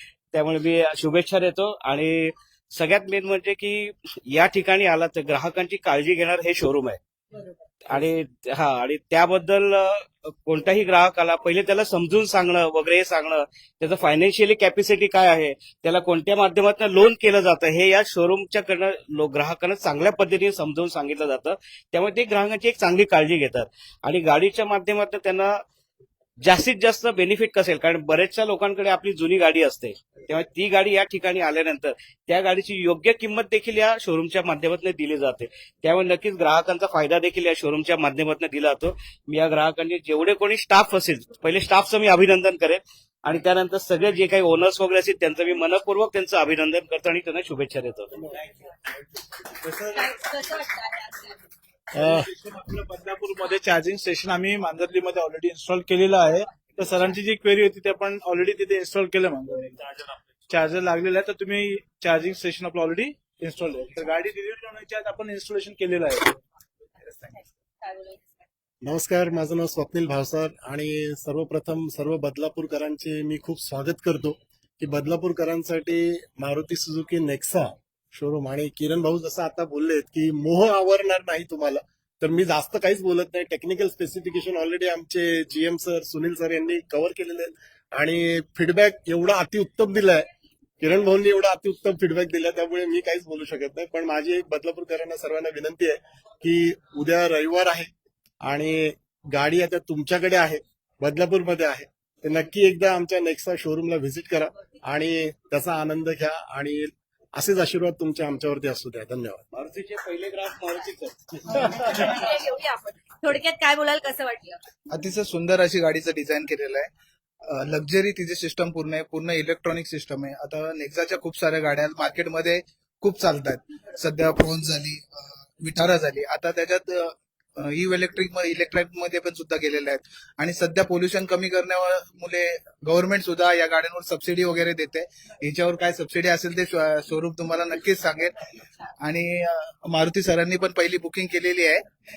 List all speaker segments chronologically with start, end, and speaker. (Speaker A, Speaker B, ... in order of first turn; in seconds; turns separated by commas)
Speaker A: 0.3-7.0, Speaker A: 7.9-25.6, Speaker A: 26.4-48.1, Speaker B: 48.3-48.7, Speaker B: 49.6-50.7, Speaker C: 50.0-51.4, Speaker D: 51.9-52.3, Speaker B: 52.0-66.4, Speaker C: 67.8-68.2, Speaker D: 68.8-90.3, Speaker D: 90.8-97.9, Speaker D: 98.4-109.5, Speaker A: 109.5-111.9, Speaker C: 111.7-114.6, Speaker E: 114.9-116.9, Speaker E: 117.5-138.4, Speaker E: 139.0-141.9